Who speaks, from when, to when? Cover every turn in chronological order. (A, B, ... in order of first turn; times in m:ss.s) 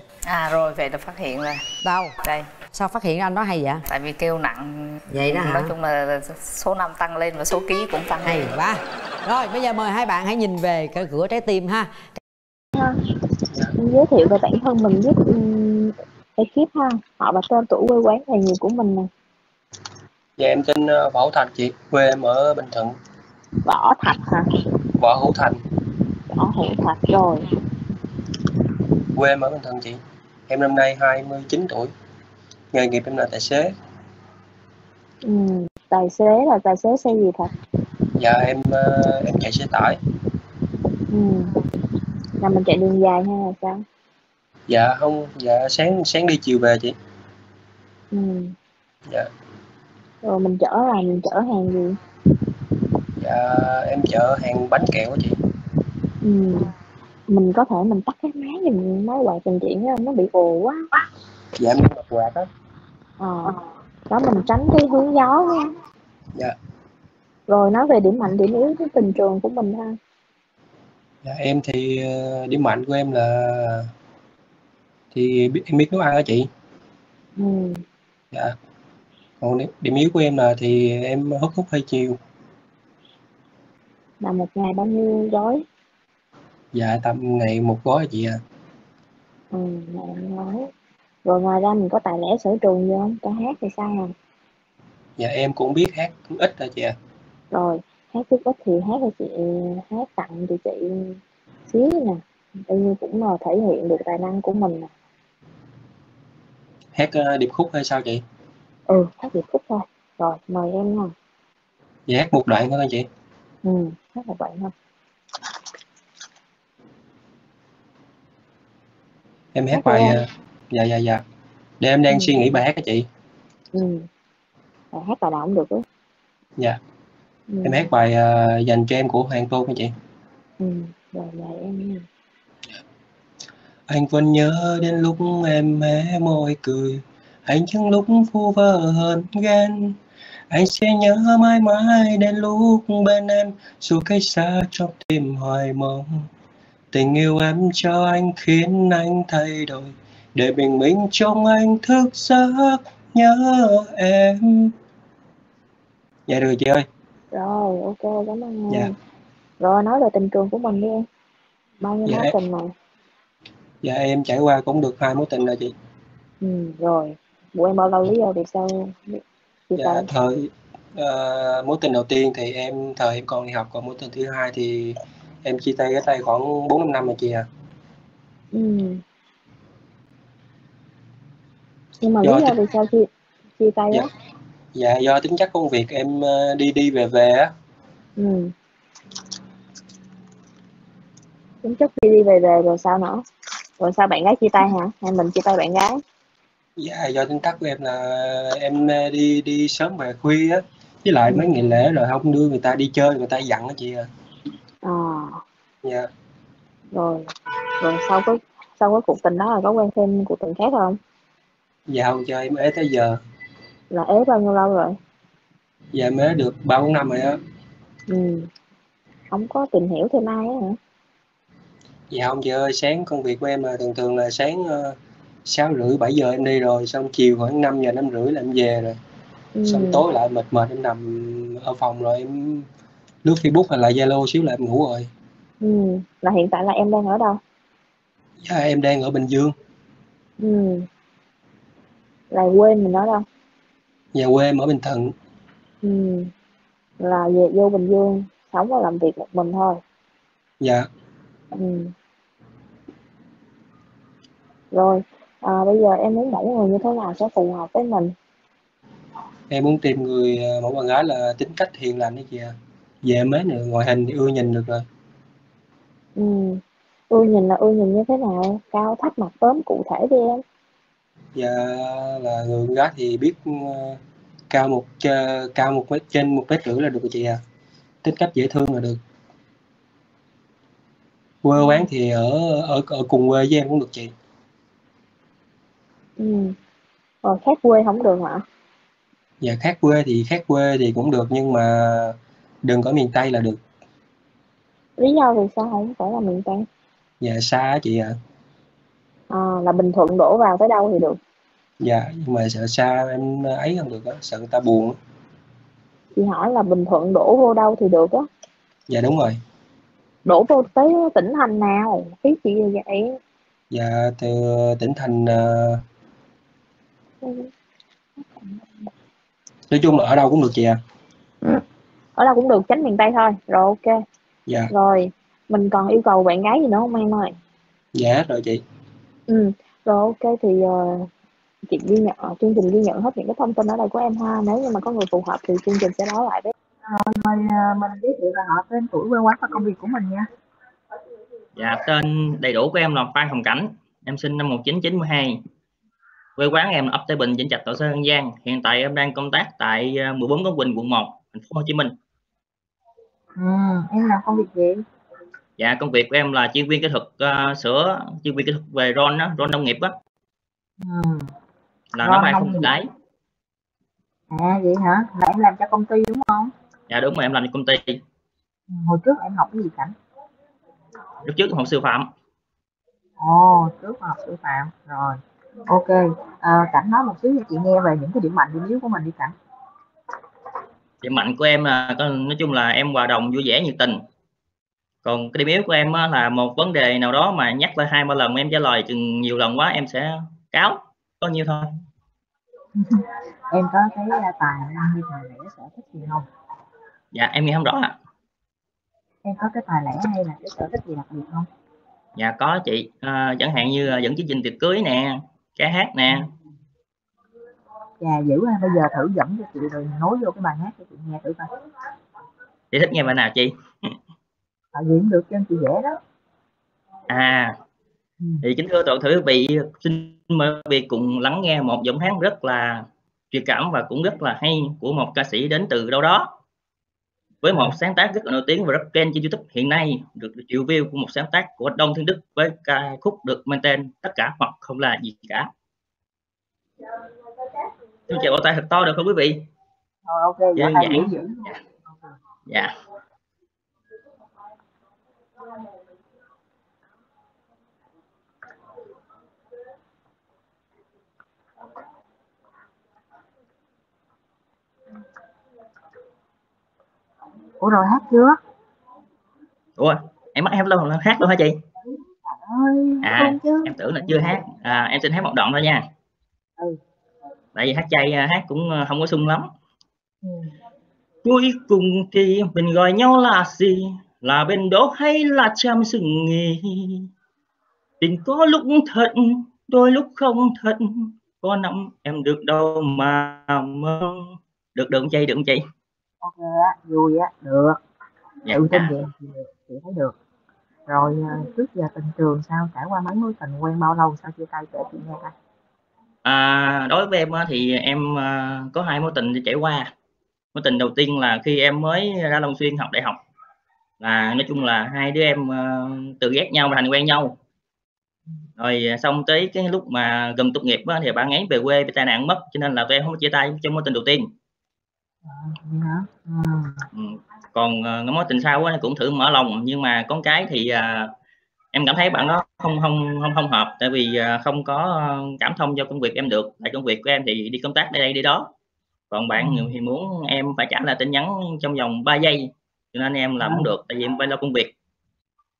0:00.3-0:01.6 A
0:01.8-0:02.1 B
0:02.2-0:02.5 A
0:02.7-0:03.8 B
0:03.9-0:08.5 A
0:05.1-0:05.7 B
0:08.2-0:12.1 B
0:13.8-0:19.1 C
0:20.4-0:23.0 D
0:23.6-0:24.5 C
0:25.0-0:25.6 D
0:26.3-0:27.4 C
0:29.1-0:31.9 D
0:32.7-0:33.7 D
0:35.2-0:37.5 C
0:38.2-0:40.0 D
0:41.1-0:41.5 C
0:42.4-0:43.8 C
0:44.7-0:46.9 D
0:48.1-0:48.5 C
0:50.2-0:52.0 C
0:53.2-0:55.4 D
0:56.2-0:56.7 C
0:57.3-1:00.8 C
1:01.6-1:02.5 D
1:03.2-1:03.6 C
1:04.1-1:05.7 C
1:07.5-1:10.0 C
1:11.2-1:13.9 D
1:15.1-1:16.5 D
1:17.4-1:17.8 C
1:19.4-1:22.2 D
1:24.2-1:25.6 C
1:26.7-1:28.4 D
1:29.5-1:30.6 C
1:31.2-1:34.1 C
1:35.2-1:36.9 D
1:37.5-1:41.2 C
1:41.7-1:44.9 C
1:46.9-1:48.2 D
1:48.9-1:51.1 C
1:52.1-1:53.1 D
1:53.6-1:54.7 C
1:59.5-2:01.2 D
1:59.7-2:00.2 C
2:01.8-2:03.1 D
2:02.1-2:02.4 C
2:03.7-2:04.0 C
2:04.9-2:05.8 C
2:07.5-2:07.8 C
2:07.6-2:09.9 D
2:10.6-2:12.0 C
2:13.9-2:20.0 D
2:20.5-2:26.2 D
2:26.9-2:34.7 D
2:36.3-2:36.8 D
2:37.3-2:38.9 C
2:39.6-2:41.0 C
2:41.8-2:42.7 C
2:42.0-2:42.3 D
2:43.8-2:45.7 D
2:46.4-2:50.0 C
2:49.8-2:57.5 D
2:58.5-2:59.0 C
3:02.0-3:03.1 C
3:02.2-3:02.6 D
3:03.6-3:04.0 C
3:04.7-3:07.5 D
3:08.2-3:08.5 C
3:11.6-3:13.2 C
3:13.8-3:16.0 C
3:16.8-3:24.1 D
3:24.8-3:25.3 C
3:25.8-3:26.1 D
3:26.9-3:27.2 C
3:27.8-3:31.0 C
3:31.9-3:33.2 D
3:33.9-3:35.0 C
3:35.9-3:37.4 D
3:38.1-3:38.4 C
3:39.3-3:40.8 C
3:42.1-3:49.0 D
3:49.6-3:50.0 C
3:49.6-3:52.6 D
3:53.2-3:55.1 D
3:55.6-3:57.4 C
3:58.4-3:59.5 D
4:00.4-4:00.8 C
4:02.3-4:03.2 C
4:04.1-4:05.1 D
4:05.8-4:06.3 C
4:07.0-4:09.8 C
4:10.6-4:10.9 D
4:11.5-4:11.9 C
4:14.7-4:18.1 C
4:19.5-4:24.8 D
4:26.2-4:26.6 C
4:27.1-4:30.4 C
4:31.3-4:34.0 D
4:34.5-4:37.4 D
4:38.0-4:39.0 D
4:41.4-4:44.1 D
4:41.6-4:41.8 C
4:46.2-4:46.5 C
4:47.2-4:48.4 C
4:49.4-4:53.6 D
4:55.0-4:56.6 C
4:57.2-4:58.1 D
4:59.3-5:01.2 C
5:01.8-5:05.0 D
5:06.1-5:08.2 C
5:08.9-5:09.4 D
5:10.2-5:13.1 C
5:13.7-5:15.8 D
5:17.2-5:17.5 C
5:19.7-5:20.8 D
5:22.2-5:23.9 C
5:24.7-5:27.3 C
5:28.0-5:28.6 D
5:29.3-5:31.1 C
5:31.7-5:36.5 C
5:36.9-5:40.3 E
5:41.6-5:45.4 F
5:46.4-5:51.9 F
5:53.4-5:54.8 E
5:55.6-5:59.9 F
6:00.8-6:01.2 E
6:01.9-6:02.9 F
6:02.0-6:02.7 E
6:04.3-6:06.5 E
6:06.9-6:08.0 F
6:08.7-6:09.9 E
6:11.2-6:12.1 F
6:13.2-6:19.3 E
6:21.0-6:24.0 F
6:25.0-6:31.7 F
6:32.8-6:36.3 E
6:37.1-6:37.9 F
6:39.2-6:41.5 E
6:42.2-6:46.2 F
6:48.0-6:51.5 E
6:52.7-6:53.9 F
6:54.7-6:56.0 E
6:57.1-6:57.5 F
6:58.4-7:06.3 F
7:07.4-7:15.5 F
7:18.1-7:19.5 F
7:20.0-7:22.0 E
7:20.5-7:21.6 F
7:22.5-7:22.7 F
7:37.6-7:38.4 E
7:39.8-7:41.6 F
7:42.2-7:44.3 E
7:43.0-7:45.8 F
7:47.5-7:49.5 F
7:51.2-7:57.1 F
7:58.0-8:05.6 F
8:06.2-8:07.8 E
8:08.4-8:09.0 F
8:08.5-8:10.1 E
8:10.9-8:15.3 E
8:16.2-8:19.9 F
8:20.5-8:23.2 F
8:24.0-8:27.4 F
8:28.6-8:34.3 F
8:35.2-8:36.8 E
8:36.9-8:41.1 F
8:41.7-8:48.5 F
8:49.1-8:54.7 F
8:49.4-8:49.7 E
8:53.4-8:53.7 E